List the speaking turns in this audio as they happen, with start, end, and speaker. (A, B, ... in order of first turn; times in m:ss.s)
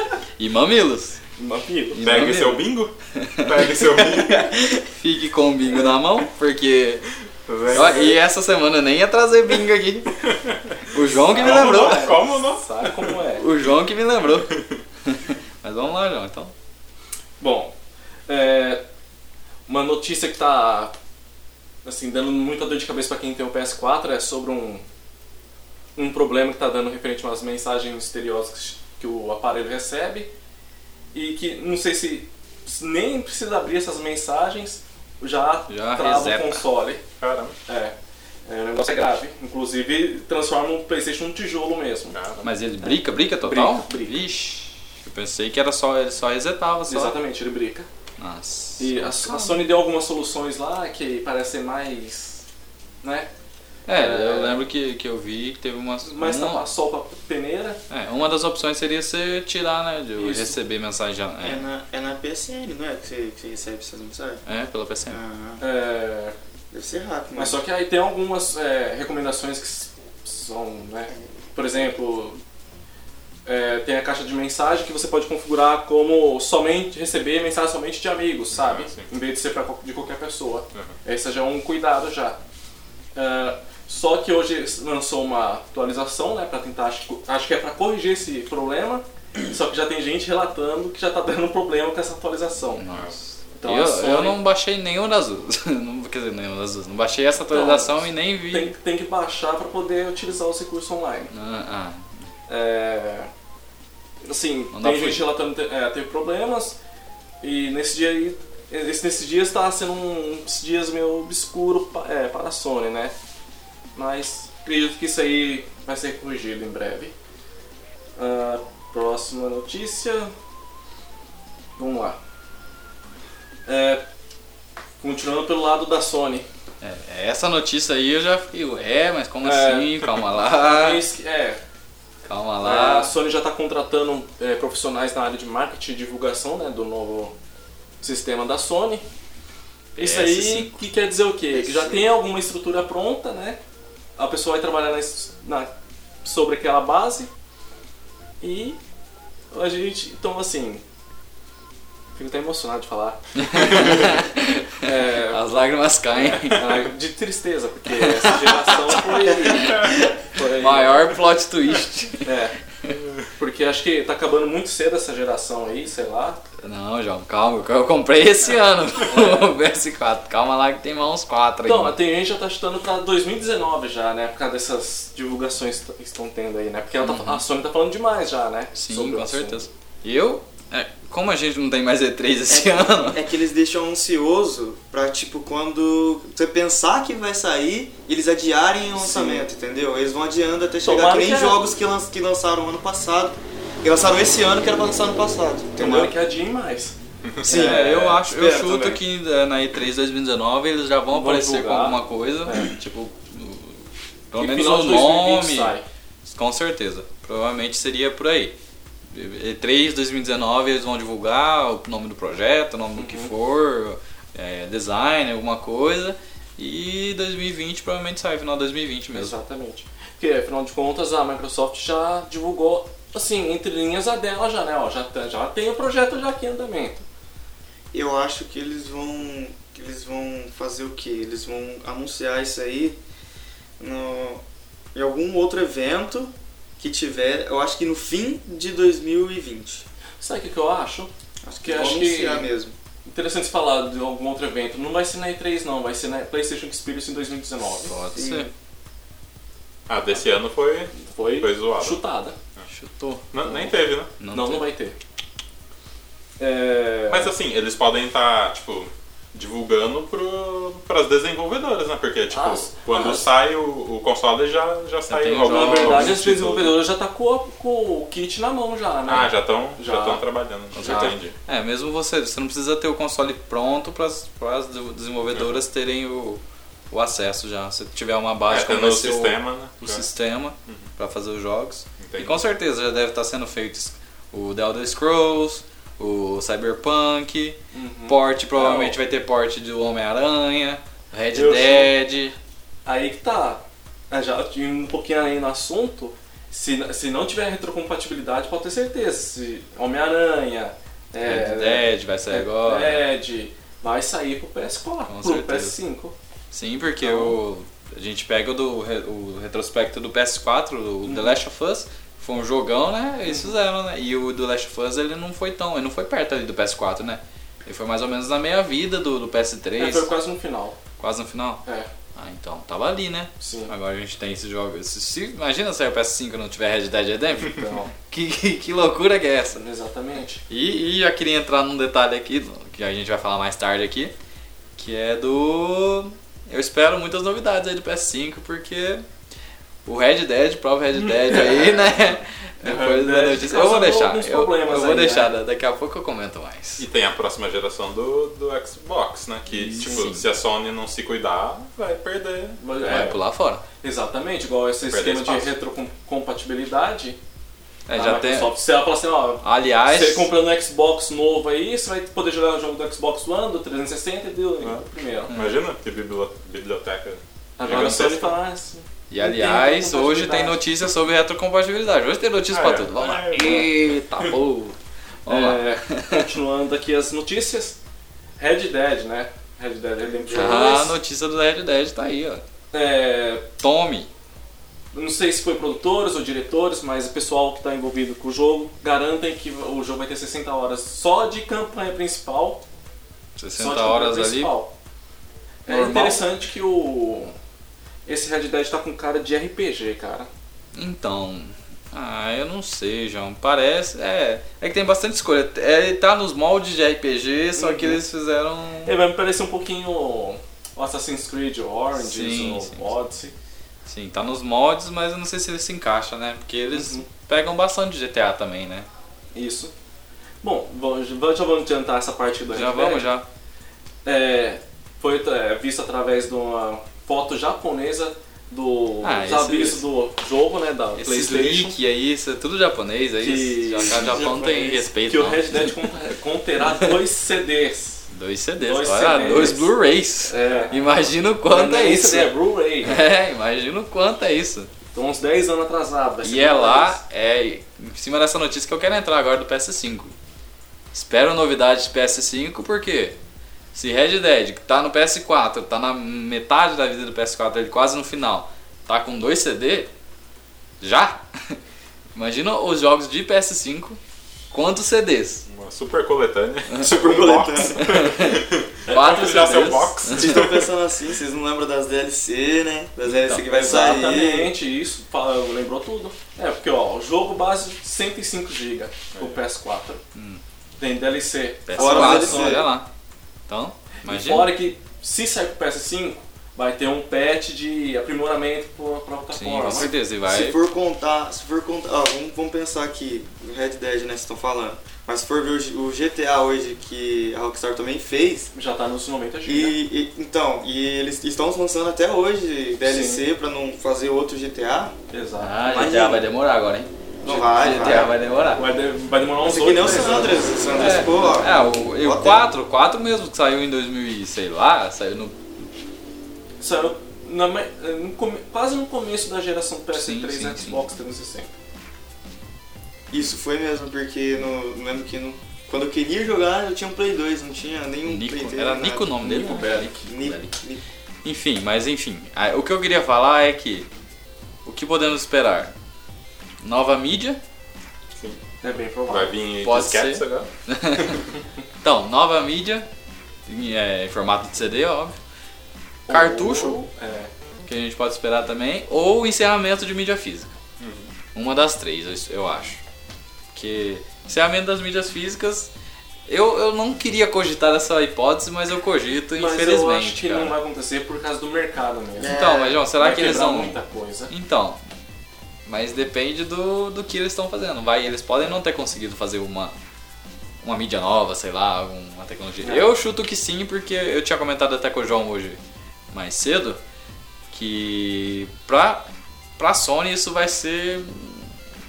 0:00.4-0:01.2 A
0:01.4-0:02.1 B
0:01.9-0:07.1 A
0:02.0-0:02.9 C
0:03.4-0:04.5 C
0:07.4-0:08.1 C
0:07.7-0:10.3 A
0:10.9-0:12.2 A
0:11.3-0:13.4 B
0:11.3-0:13.0 C
0:13.4-0:16.5 A
0:17.4-0:17.7 B
0:18.3-0:18.8 B
0:19.7-0:20.9 B
0:21.8-0:24.8 B
0:26.0-0:30.3 B
0:31.1-0:37.0 B
0:35.7-0:36.6 A
0:37.2-0:37.6 C
0:37.7-0:37.9 B
0:38.5-0:42.2 B
0:42.1-0:42.5 C
0:42.4-0:47.2 A
0:42.8-0:44.2 B
0:46.9-0:47.9 B
0:48.2-0:49.7 A
0:48.8-0:52.4 B
0:53.0-0:53.3 B
0:53.8-0:56.6 A
0:53.9-0:54.6 B
0:56.0-0:57.8 B
0:57.9-1:01.7 A
1:00.2-1:00.6 B
1:01.4-1:04.4 D
1:04.4-1:05.2 A
1:05.1-1:05.6 D
1:05.6-1:06.4 B
1:06.7-1:07.6 D
1:07.3-1:12.4 B
1:13.4-1:22.4 B
1:18.5-1:19.1 C
1:23.1-1:32.8 B
1:32.8-1:38.7 A
1:32.9-1:33.2 C
1:33.6-1:34.4 B
1:37.5-1:41.3 B
1:41.3-1:42.0 A
1:42.5-1:43.3 B
1:44.2-1:46.8 B
1:44.7-1:45.3 A
1:47.4-1:53.1 B
1:53.9-1:57.1 B
1:58.2-2:00.3 B
2:01.8-2:02.2 B
2:03.6-2:04.0 B
2:05.0-2:06.5 B
2:06.8-2:11.0 A
2:09.4-2:10.0 B
2:10.6-2:11.6 B
2:12.2-2:13.1 A
2:12.6-2:17.3 B
2:18.0-2:19.0 B
2:20.0-2:20.8 A
2:20.0-2:23.6 B
2:21.5-2:22.0 D
2:24.2-2:25.7 B
2:26.2-2:27.3 B
2:28.4-2:28.8 B
2:29.5-2:30.8 B
2:32.2-2:33.8 B
2:33.4-2:36.8 A
2:34.8-2:35.4 B
2:36.1-2:41.1 B
2:38.0-2:42.3 A
2:42.2-2:42.6 B
2:43.3-2:46.4 B
2:46.6-2:52.0 A
2:49.0-2:49.5 B
2:51.6-2:59.6 B
2:57.0-2:57.4 A
2:58.8-3:03.2 A
3:02.5-3:16.1 D
3:08.9-3:09.5 B
3:10.8-3:11.7 B
3:15.8-3:18.2 B
3:17.2-3:17.5 C
3:17.4-3:19.0 D
3:17.5-3:23.8 A
3:21.1-3:22.7 B
3:24.3-3:28.5 A
3:24.3-3:25.8 B
3:29.1-3:39.3 A
3:32.9-3:33.3 B
3:39.1-3:47.0 B
3:47.9-3:53.0 D
3:53.8-3:54.4 D
3:54.9-3:59.8 D
4:00.2-4:01.1 B
4:01.4-4:02.7 D
4:01.6-4:02.5 B
4:03.0-4:07.9 B
4:07.8-4:08.5 A
4:08.1-4:08.5 D
4:09.9-4:12.0 C
4:11.0-4:12.4 B
4:12.7-4:13.2 A
4:13.3-4:14.1 C
4:13.4-4:13.7 B
4:14.2-4:14.7 A
4:14.3-4:15.0 B
4:16.4-4:17.3 B
4:17.1-4:26.7 C
4:22.3-4:23.3 B
4:25.1-4:26.2 A
4:25.4-4:30.2 B
4:29.0-4:31.3 C
4:30.7-4:31.2 B
4:30.8-4:52.3 A
4:35.3-4:35.6 C
4:38.5-4:40.0 C
4:42.0-4:42.4 C
4:47.7-4:49.0 B
4:51.3-4:51.9 B
4:52.8-5:06.1 B
5:01.2-5:03.1 A
5:05.1-5:05.8 A
5:06.5-5:20.1 A
5:07.0-5:07.4 B
5:11.0-5:11.4 B
5:13.2-5:13.5 B
5:19.8-5:20.8 B
5:21.0-5:21.6 A
5:22.2-5:29.6 A
5:23.4-5:23.7 B
5:27.4-5:27.9 B
5:29.5-5:30.4 B
5:30.5-5:34.1 A
5:34.8-5:39.0 A
5:39.8-5:46.8 A
5:41.0-5:42.0 B
5:42.6-5:45.3 B
5:46.8-5:53.1 C
5:49.5-5:50.2 A
5:49.8-5:50.1 B
5:52.6-5:53.2 B
5:52.8-5:53.6 A
5:53.8-5:57.2 B
5:54.8-5:55.5 C
5:57.9-5:58.6 A
5:57.9-6:05.3 B
5:59.4-6:00.3 A
6:04.6-6:08.3 C
6:05.3-6:05.6 A
6:07.6-6:10.6 B
6:07.6-6:08.1 A
6:09.1-6:16.3 A
6:12.5-6:14.3 C
6:15.3-6:17.8 B
6:18.4-6:21.0 B
6:20.1-6:20.8 D
6:20.3-6:22.4 A
6:22.7-6:23.5 B
6:23.6-6:24.1 A
6:24.9-6:32.6 B
6:33.4-6:34.5 A
6:33.5-6:34.7 B
6:35.6-6:37.3 B
6:35.7-6:36.2 A
6:38.0-6:40.3 B
6:40.7-6:48.9 A
6:47.6-6:48.0 B
6:48.8-6:53.3 B
6:52.0-6:52.9 A
6:53.8-6:58.9 A
6:56.7-6:57.1 B
6:59.3-6:59.7 B
7:00.4-7:03.1 B
7:02.5-7:03.2 A
7:04.0-7:11.8 B
7:09.0-7:09.8 A
7:11.0-7:15.8 A
7:13.2-7:14.1 B
7:13.9-7:14.9 D
7:15.1-7:18.0 B
7:18.1-7:24.7 A
7:18.6-7:19.7 B
7:20.2-7:20.8 B
7:20.4-7:20.7 C
7:21.5-7:23.0 B
7:24.9-7:27.0 B
7:26.2-7:30.1 A
7:30.9-7:33.2 A
7:33.7-7:39.9 A
7:40.8-7:41.6 A
7:42.1-7:44.0 A
7:44.5-7:45.4 A
7:45.5-7:50.7 C
7:46.8-7:48.1 D
7:47.8-7:50.4 A
7:48.9-7:49.8 B
7:50.1-7:54.5 D
7:53.0-7:53.9 A
7:53.4-8:00.0 B
7:59.1-7:59.4 C
8:00.1-8:00.4 A
8:00.8-8:02.6 B
8:01.7-8:02.9 A
8:01.7-8:02.7 D
8:03.5-8:04.5 A
8:04.0-8:09.9 B
8:09.3-8:10.6 A
8:09.7-8:18.5 D
8:18.5-8:19.8 B
8:19.4-8:24.9 D
8:22.8-8:23.3 B
8:25.1-8:26.2 B
8:25.4-8:28.6 A
8:27.2-8:28.1 D
8:27.2-8:30.4 B
8:29.4-8:32.4 D
8:30.7-8:35.3 A
8:36.6-8:41.5 B
8:39.9-8:40.8 A
8:43.1-8:50.8 D
8:48.0-8:50.6 A
8:49.3-8:50.0 B
8:51.2-8:53.9 A
8:54.6-8:55.7 A
8:56.6-8:57.4 A
8:58.6-8:59.4 B
8:59.1-9:01.2 C
8:59.6-9:01.2 A
9:01.8-9:02.9 A
9:03.5-9:05.2 A
9:06.1-9:06.8 A
9:06.1-9:07.3 B
9:07.6-9:10.5 A
9:10.8-9:11.1 C
9:11.3-9:12.8 A
9:13.5-9:15.7 A
9:16.3-9:20.6 A
9:19.4-9:22.4 B
9:22.2-9:22.8 D
9:22.2-9:23.8 A
9:23.0-9:24.3 B
9:24.3-9:24.8 A
9:25.6-9:29.7 A
9:30.6-9:35.6 A
9:32.6-9:32.9 B
9:36.1-9:36.8 A
9:37.5-9:39.1 A
9:39.6-9:41.5 A